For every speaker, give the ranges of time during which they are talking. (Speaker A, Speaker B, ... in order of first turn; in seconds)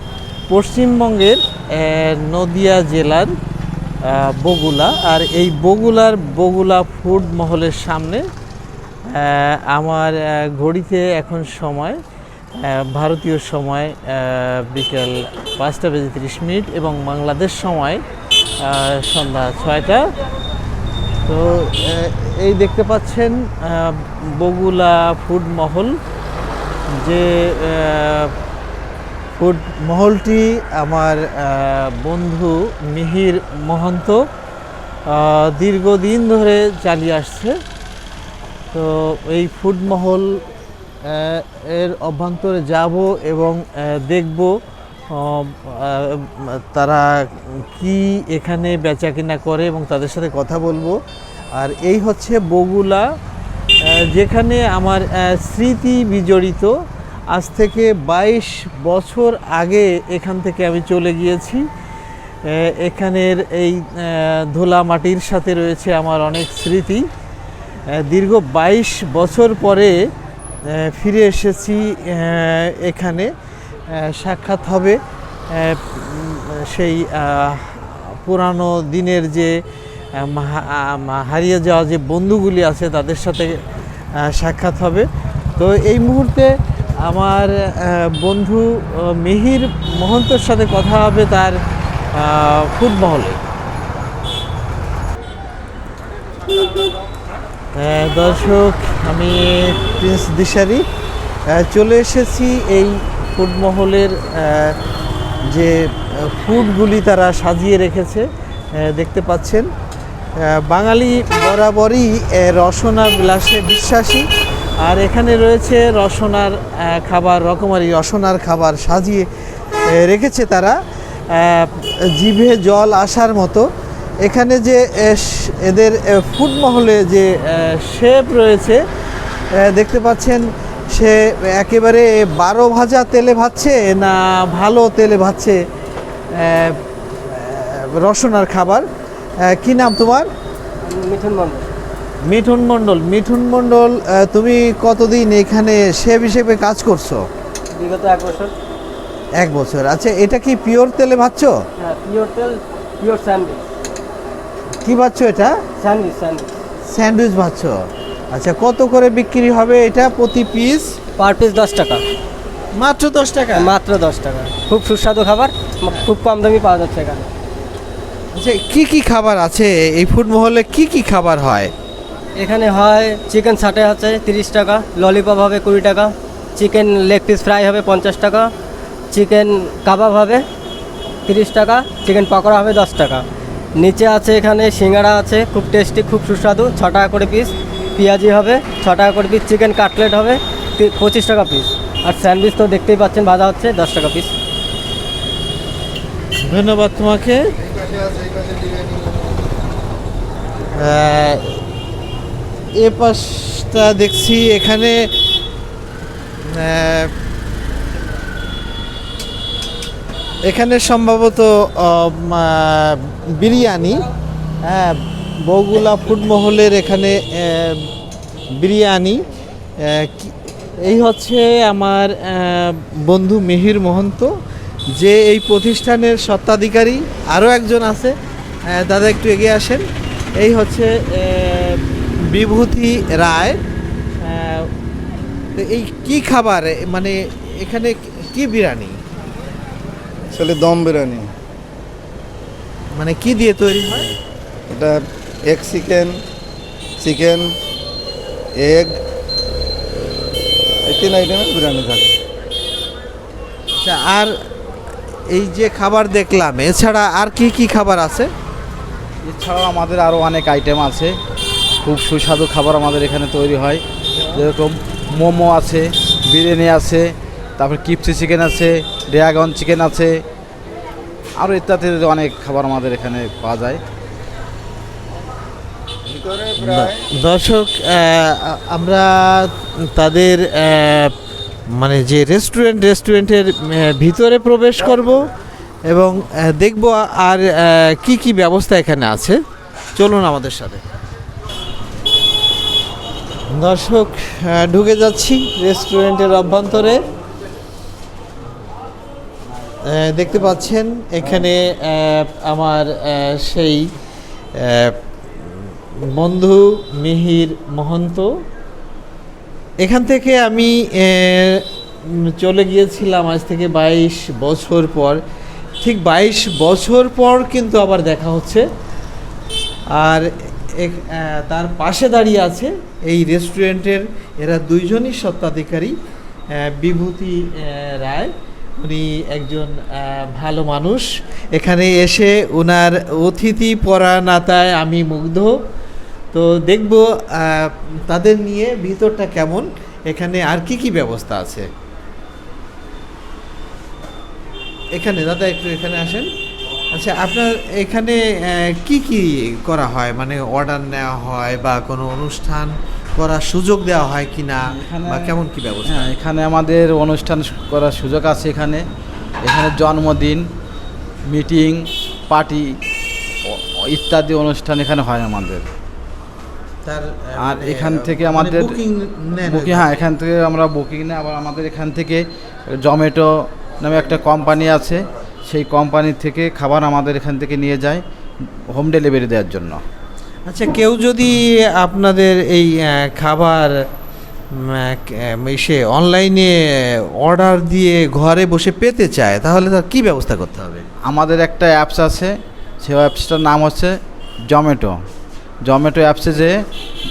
Speaker A: 0.5-3.4, 4.0-8.2, 9.1-12.0, 12.6-18.0, 18.6-20.1, 21.2-26.0, 26.9-28.3, 29.4-34.2, 35.1-37.6, 38.7-40.4, 41.0-44.5, 45.1-51.0, 51.5-53.0, 53.9-56.7, 57.3-61.6, 62.5-67.0, 67.9-70.0, 70.7-73.3, 73.9-75.0, 75.5-79.6, 80.1-83.6, 84.2-93.4, 97.7-100.8, 101.5-104.8, 105.5-109.7, 110.4-114.3, 114.8-119.3, 119.9-120.8, 121.3-123.7, 124.2-128.8, 129.5-135.6, 136.3-138.8, 139.4-140.3, 142.2-147.2, 149.4-151.5, 154.8-155.5, 156.9-157.7, 158.3-160.9, 162.7-163.7, 168.3-171.7, 196.4-197.5, 200.8-201.6, 202.8-205.1, 206.4-207.1, 210.4-214.0, 214.6-217.9, 218.6-219.2, 219.8-224.3, 225.0-228.2, 228.7-229.8, 230.4-233.6, 234.2-234.7, 235.5-239.0, 242.9-244.1, 253.8-254.3, 255.3-258.3, 276.6-281.1, 281.8-285.3, 285.9-289.4, 289.9-290.8, 293.5-297.0, 299.9-303.9, 304.6-308.3, 309.8-315.2, 315.8-318.6, 319.9-325.9, 326.6-335.5, 336.3-341.7, 344.9-346.3, 346.9-356.1, 366.8-369.9, 380.5-383.7, 384.6-390.8
Speaker B: 140.8-141.7, 147.7-148.5, 151.8-153.6, 155.8-156.5, 161.2-162.0, 163.5-167.3, 172.4-178.5, 179.1-180.4, 181.3-183.2, 183.8-194.3
Speaker C: 197.7-199.2, 240.3-241.3, 244.7-246.1, 247.0-247.5, 248.6-249.0, 250.8-252.1, 276.1-277.1
Speaker D: 259.2-261.1, 261.8-270.1, 271.4-273.8, 354.6-355.3, 355.9-358.8, 359.4-360.5, 361.3-362.8, 363.4-365.6, 367.4-368.8, 369.4-378.0, 378.7-379.8, 391.1-393.9, 394.5-395.0, 395.6-396.5